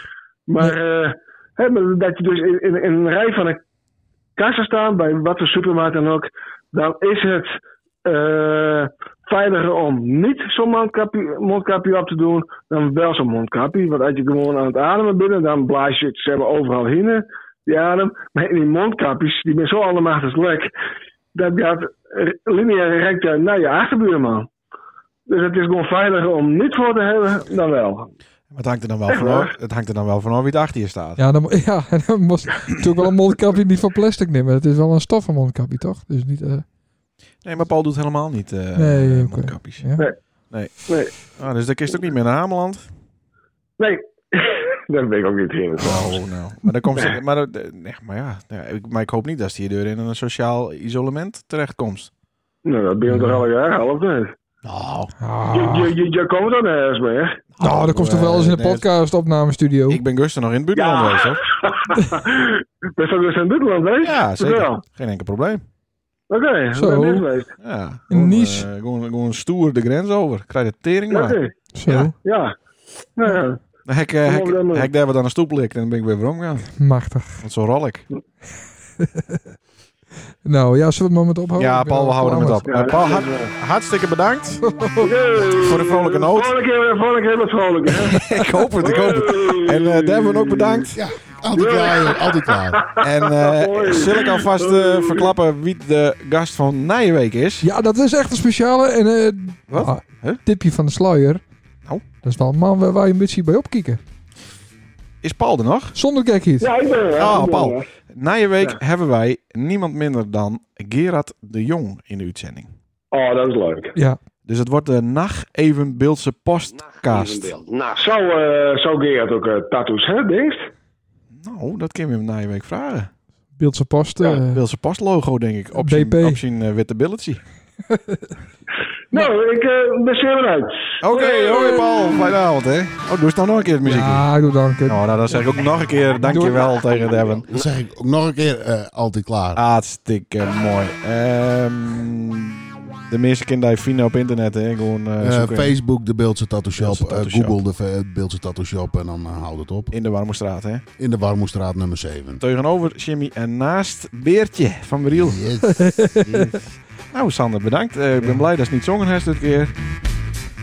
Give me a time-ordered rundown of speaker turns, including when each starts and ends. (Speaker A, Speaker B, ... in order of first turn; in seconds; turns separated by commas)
Speaker A: 0.5-3.6, Speaker A: 4.3-20.7, Speaker A: 21.3-24.5, Speaker A: 25.3-28.1, Speaker B: 28.5-31.2, Speaker A: 29.1-29.5, Speaker C: 31.2-36.6, Speaker B: 37.4-39.8, Speaker C: 38.8-40.1, Speaker B: 40.5-42.8, Speaker A: 40.9-41.1, Speaker A: 43.8-46.2, Speaker B: 45.8-52.1, Speaker A: 52.6-54.3, Speaker C: 53.0-53.4, Speaker B: 54.6-55.1, Speaker C: 55.2-55.9, Speaker A: 55.5-57.4, Speaker B: 57.6-58.8, Speaker C: 57.6-60.0, Speaker B: 59.9-61.4, Speaker A: 60.7-64.8, Speaker B: 64.0-65.6, Speaker A: 66.3-67.5, Speaker C: 66.7-67.2, Speaker B: 67.6-72.1, Speaker C: 68.1-68.7, Speaker A: 71.1-71.5, Speaker C: 71.7-72.1, Speaker A: 72.2-72.5, Speaker A: 73.2-73.6, Speaker B: 73.8-76.8, Speaker A: 74.2-74.9, Speaker C: 76.8-77.4, Speaker B: 77.4-78.0, Speaker C: 79.0-79.4, Speaker C: 80.4-82.7, Speaker B: 81.6-84.7, Speaker A: 82.7-83.5, Speaker C: 84.6-85.1, Speaker A: 85.0-90.9, Speaker B: 85.5-86.5, Speaker B: 87.9-91.0, Speaker D: 90.9-92.8, Speaker A: 91.5-95.3, Speaker B: 93.0-97.7, Speaker C: 97.6-101.4, Speaker B: 99.7-100.4, Speaker C: 102.2-104.0, Speaker B: 105.2-106.0, Speaker C: 105.9-106.7, Speaker A: 106.6-107.9, Speaker B: 107.1-112.7, Speaker A: 113.1-113.9, Speaker B: 114.5-117.5, Speaker E: 116.7-118.1, Speaker A: 118.0-120.7, Speaker B: 121.3-123.1, Speaker C: 123.6-124.6, Speaker B: 124.5-127.4, Speaker C: 125.8-126.4, Speaker C: 127.9-128.3, Speaker A: 129.1-132.3, Speaker B: 131.0-134.3, Speaker C: 133.8-135.0, Speaker B: 134.9-137.4, Speaker E: 136.2-137.7, Speaker C: 136.3-136.6, Speaker D: 137.5-139.6, Speaker B: 139.5-145.8, Speaker D: 145.2-149.9, Speaker B: 146.8-147.6, Speaker B: 149.9-150.8, Speaker D: 151.0-152.4, Speaker B: 152.4-155.4, Speaker D: 155.1-155.9, Speaker C: 155.6-156.6, Speaker B: 156.3-156.6, Speaker B: 157.1-159.7